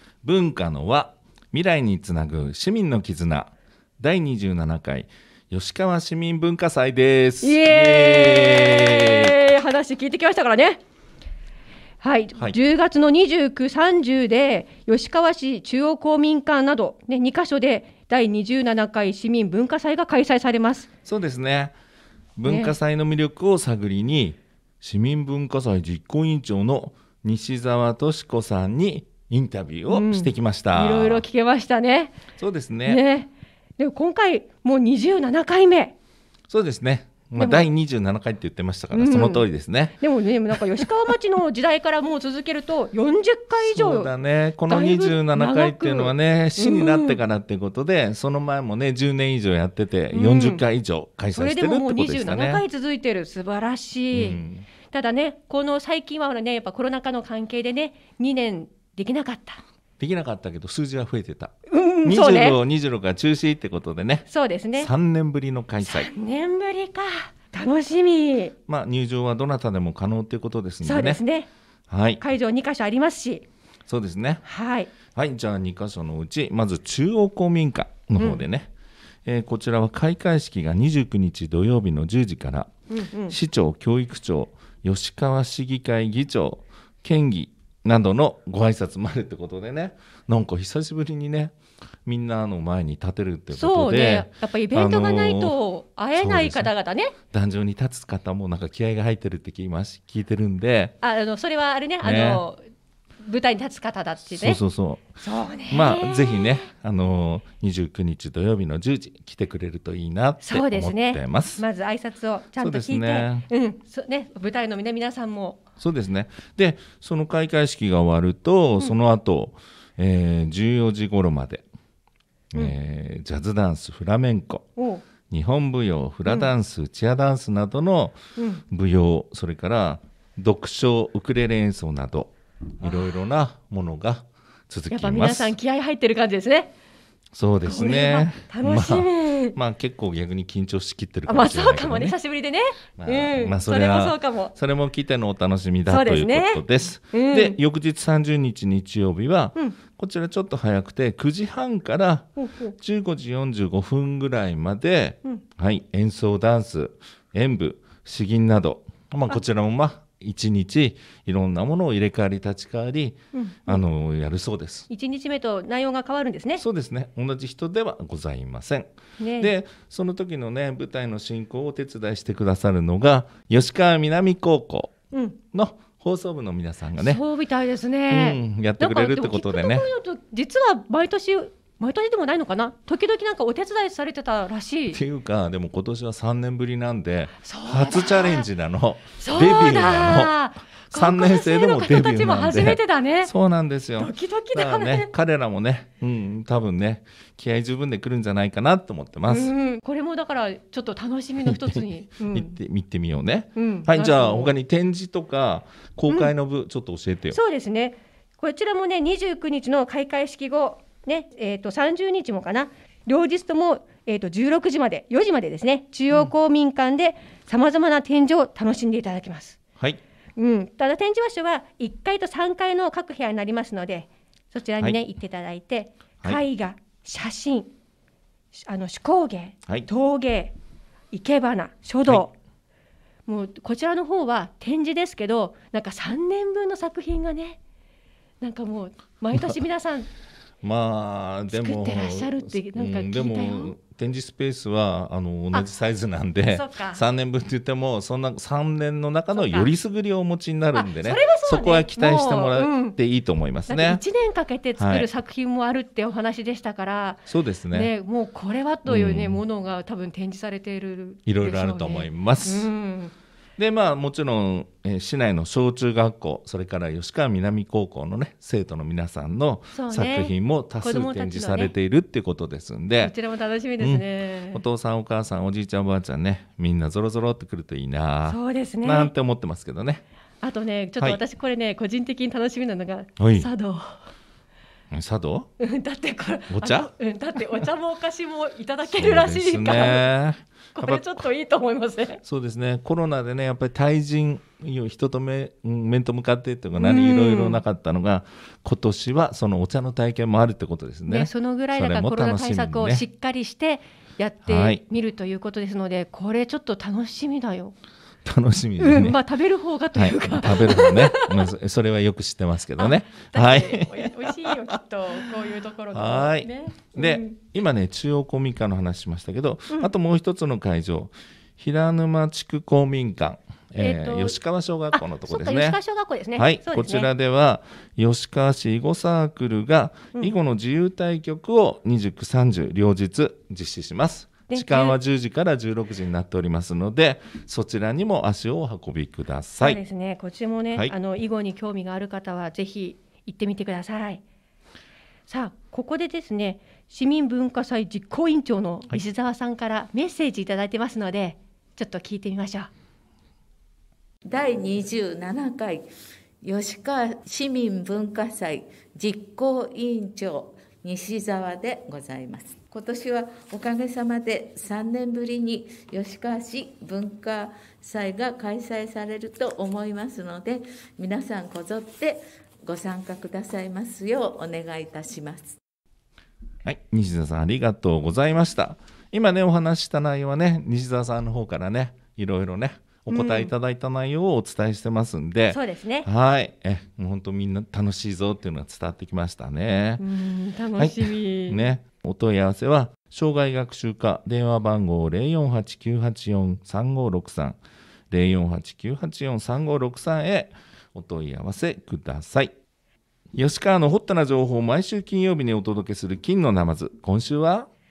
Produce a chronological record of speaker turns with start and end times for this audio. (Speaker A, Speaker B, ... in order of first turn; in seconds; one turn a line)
Speaker A: 0.2-9.3
Speaker B: 7.4-10.8
Speaker B: 12.0-20.9
Speaker A: 21.0-21.8
Speaker A: 22.4-31.2
Speaker B: 22.4-22.8
Speaker B: 29.9-32.1
Speaker A: 32.4-33.0
Speaker B: 32.9-35.9
Speaker A: 36.5-40.0
Speaker B: 37.4-37.6
Speaker B: 38.9-39.4
Speaker B: 40.0-44.1
Speaker A: 40.5-40.9
Speaker A: 43.6-52.6
Speaker B: 44.7-47.2
Speaker B: 50.1-50.6
Speaker B: 51.3-59.6
Speaker A: 54.1-54.7
Speaker A: 60.0-61.5
Speaker B: 61.7-62.6
Speaker A: 62.0-66.1
Speaker B: 64.3-64.9
Speaker B: 65.8-68.5
Speaker A: 68.7-71.2
Speaker B: 70.8-71.5
Speaker A: 71.9-72.2
Speaker B: 72.2-73.5
Speaker A: 73.9-74.5
Speaker B: 74.5-74.9
Speaker A: 75.2-78.7
Speaker B: 78.2-78.4
Speaker A: 79.2-82.7
Speaker B: 82.9-83.4
Speaker A: 83.3-91.5
Speaker A: 92.1-95.6
Speaker B: 93.5-97.1
Speaker A: 96.1-96.7
Speaker A: 97.3-100.9
Speaker B: 101.0-102.6
Speaker A: 102.0-102.4
Speaker B: 103.2-104.6
Speaker A: 104.3-105.2
Speaker B: 105.2-106.7
Speaker A: 105.7-111.7
Speaker B: 110.4-115.6
Speaker A: 112.6-113.5
Speaker A: 115.8-121.6
Speaker A: 122.5-124.7
Speaker B: 124.8-125.0
Speaker A: 125.3-135.6
Speaker B: 128.4-128.6
Speaker B: 134.9-136.7
Speaker A: 137.3-142.2
Speaker B: 137.7-139.6
Speaker B: 141.3-144.5
Speaker A: 143.0-164.9
Speaker B: 145.9-147.6
Speaker B: 152.4-152.8
Speaker B: 163.3-163.8
Speaker B: 164.9-166.6
Speaker A: 166.6-175.0
Speaker B: 169.2-169.5
Speaker B: 175.1-175.4
Speaker A: 175.5-177.2
Speaker B: 177.0-185.0
Speaker A: 178.1-179.9
Speaker A: 184.9-190.4
Speaker B: 187.4-188.5
Speaker B: 189.2-193.3
Speaker A: 190.9-199.5
Speaker B: 194.0-195.1
Speaker B: 199.3-202.6
Speaker A: 201.4-207.4
Speaker B: 203.6-204.5
Speaker B: 207.3-219.6
Speaker B: 220.4-227.7
Speaker B: 228.5-230.5
Speaker B: 231.1-232.3
Speaker B: 233.2-237.6
Speaker B: 238.4-240.1
Speaker A: 240.6-254.0
Speaker B: 241.5-243.7
Speaker B: 246.5-247.0
Speaker B: 249.3-249.7
Speaker B: 250.7-253.0
Speaker B: 253.7-263.1
Speaker A: 254.8-255.1
Speaker A: 257.3-257.9
Speaker A: 258.8-259.4
Speaker A: 261.2-262.7
Speaker A: 263.6-273.1
Speaker B: 269.7-271.7
Speaker B: 273.0-274.6
Speaker A: 273.8-280.0
Speaker B: 278.2-279.1
Speaker B: 280.4-283.9
Speaker A: 283.2-283.5
Speaker A: 284.9-285.5
Speaker B: 285.6-290.1
Speaker A: 286.5-286.9
Speaker A: 288.9-291.3
Speaker B: 290.7-292.2
Speaker A: 292.2-303.1
Speaker B: 296.8-297.6
Speaker B: 301.1-307.7
Speaker A: 304.4-304.8
Speaker A: 308.2-309.2
Speaker B: 308.8-311.5
Speaker A: 309.9-314.8
Speaker B: 312.8-317.4
Speaker A: 315.9-325.8
Speaker B: 323.8-324.4
Speaker B: 324.9-327.1
Speaker A: 326.3-339.8
Speaker B: 334.5-335.0
Speaker B: 339.6-344.2
Speaker B: 345.3-352.7
Speaker C: 354.2-355.9
Speaker C: 356.4-375.6
Speaker A: 376.6-390.0
Speaker B: 383.1-383.5
Speaker B: 385.5-386.1
Speaker B: 390.0-391.7
Speaker A: 390.8-397.6
Speaker A: 398.1-402.5
Speaker A: 403.3-407.7